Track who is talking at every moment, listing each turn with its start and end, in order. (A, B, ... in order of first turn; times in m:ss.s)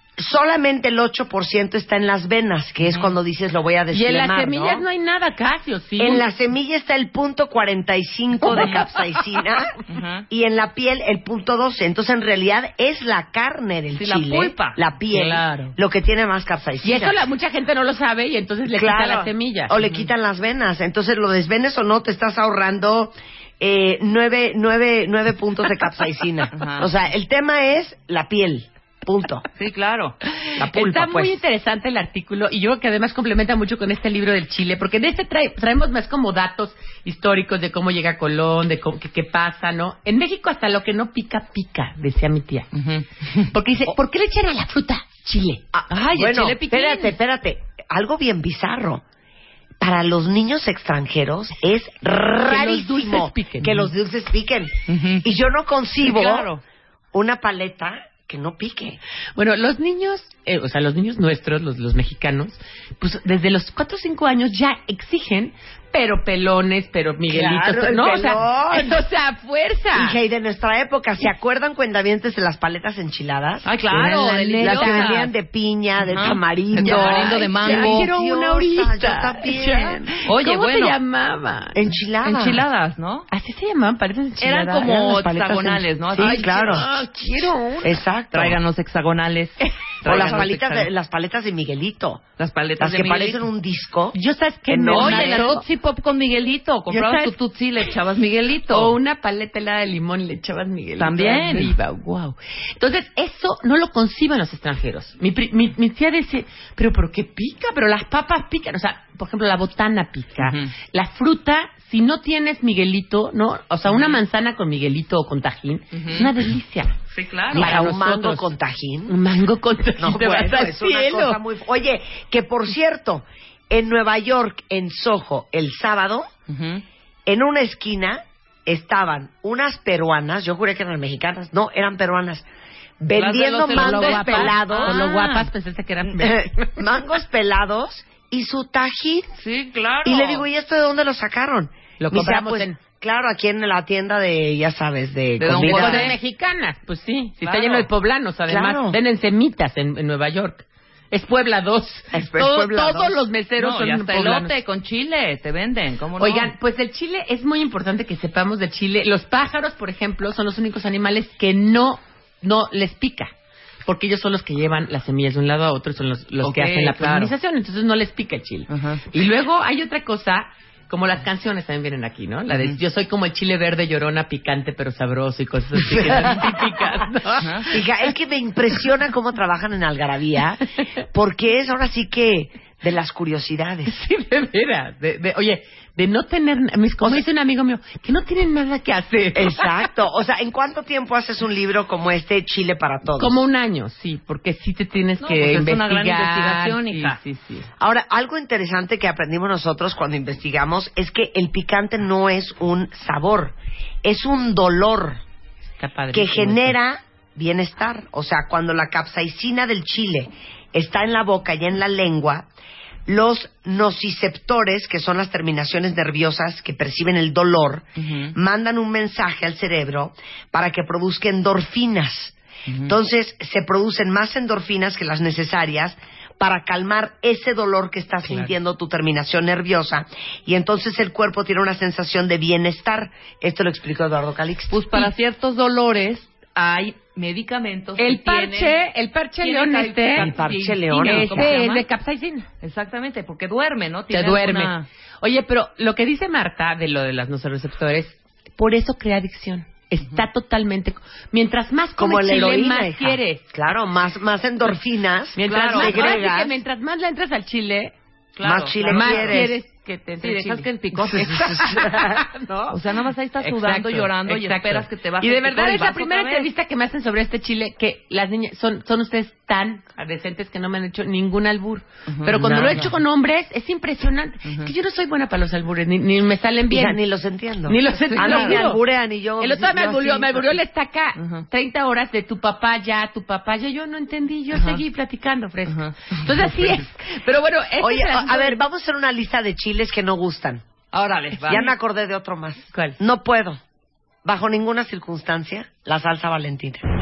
0:00.2-0:04.9 A
0:02.8-0:03.1 B
0:03.9-0:06.3 C
0:06.0-0:09.8 A
0:08.4-0:09.2 C
0:08.5-0:08.8 B
0:09.9-0:10.2 B
0:10.3-0:17.2 A
0:13.9-0:14.8 B
0:15.1-0:15.8 C
0:16.8-0:19.7 C
0:18.7-0:29.4 A
0:19.8-0:20.1 B
0:26.5-0:26.9 B
0:29.6-0:30.2 B
0:30.6-0:31.4 A
0:30.7-0:42.7 C
0:42.7-0:43.5 B
0:43.5-0:45.6 C
0:45.7-0:49.0 A
0:45.9-0:47.2 B
0:49.8-0:56.5 A
0:52.4-0:53.9 C
0:54.9-0:55.2 B
0:56.0-0:56.6 B
0:57.1-0:59.0 A
0:59.4-1:10.2 C
1:07.3-1:09.0 A
1:09.9-1:20.1 A
1:13.6-1:15.3 B
1:13.9-1:15.2 C
1:16.1-1:18.1 B
1:16.8-1:21.9 C
1:20.3-1:21.0 B
1:21.8-1:22.6 A
1:22.2-1:23.3 B
1:23.3-1:24.9 C
1:24.4-1:26.9 B
1:24.8-1:26.9 A
1:26.2-1:27.9 C
1:27.8-1:28.6 A
1:28.3-1:30.9 B
1:29.6-1:30.4 C
1:30.0-1:32.2 A
1:32.4-1:33.5 B
1:32.8-1:34.2 A
1:34.1-1:35.6 C
1:34.7-1:35.5 A
1:34.9-1:39.0 B
1:36.9-1:37.3 C
1:38.7-1:57.0 C
1:41.0-1:41.7 B
1:50.4-1:50.7 B
1:53.9-1:54.2 B
1:55.9-1:56.3 B
1:57.1-1:57.8 B
1:57.5-1:58.5 C
1:57.5-1:59.2 A
1:59.1-2:01.4 C
2:00.0-2:06.3 A
2:06.5-2:06.8 B
2:07.3-2:12.5 A
2:13.0-2:15.1 A
2:13.1-2:15.5 B
2:13.7-2:16.8 C
2:16.1-2:19.3 A
2:19.4-2:20.5 B
2:20.0-2:26.2 A
2:22.0-2:22.8 C
2:25.4-2:26.2 B
2:25.6-2:34.6 C
2:27.4-2:27.9 B
2:28.5-2:29.0 A
2:32.1-2:33.2 A
2:33.6-2:36.5 B
2:36.2-2:43.3 C
2:43.8-2:57.8 C
2:46.4-2:47.3 B
2:48.7-2:49.0 B
2:52.5-2:52.8 B
2:55.9-2:56.4 A
2:57.4-2:57.7 B
2:57.7-3:03.9 A
3:03.9-3:09.9 C
3:09.4-3:13.4 A
3:13.2-3:17.7 C
3:15.2-3:17.2 B
3:17.8-3:25.2 A
3:25.8-3:26.8 C
3:26.1-3:32.5 A
3:33.1-3:54.9 A
3:38.0-3:38.4 B
3:42.7-3:42.9 B
3:54.7-3:58.8 B
3:58.0-4:00.3 C
3:59.4-4:01.9 B
4:00.2-4:01.6 A
4:01.0-4:02.5 C
4:02.6-4:04.9 B
4:04.1-4:13.4 C
4:12.0-4:16.6 A
4:15.4-4:17.9 C
4:15.4-4:16.2 B
4:18.4-4:19.5 B
4:18.4-4:19.5 A
4:18.9-4:22.8 C
4:20.2-4:22.0 B
4:21.3-4:21.8 A
4:22.7-4:26.5 B
4:23.4-4:37.0 C
4:32.1-4:32.9 B
4:32.4-4:32.9 A
4:34.5-4:34.7 B
4:36.7-4:40.6 A
4:37.7-4:38.8 C
4:38.0-4:38.6 B
4:39.4-4:48.6 C
4:41.2-4:41.4 B
4:44.5-4:44.8 B
4:45.7-4:46.8 B
4:47.8-4:50.6 A
4:50.9-4:51.7 B
4:51.5-4:53.6 A
4:52.7-4:53.0 C
4:54.2-4:56.8 A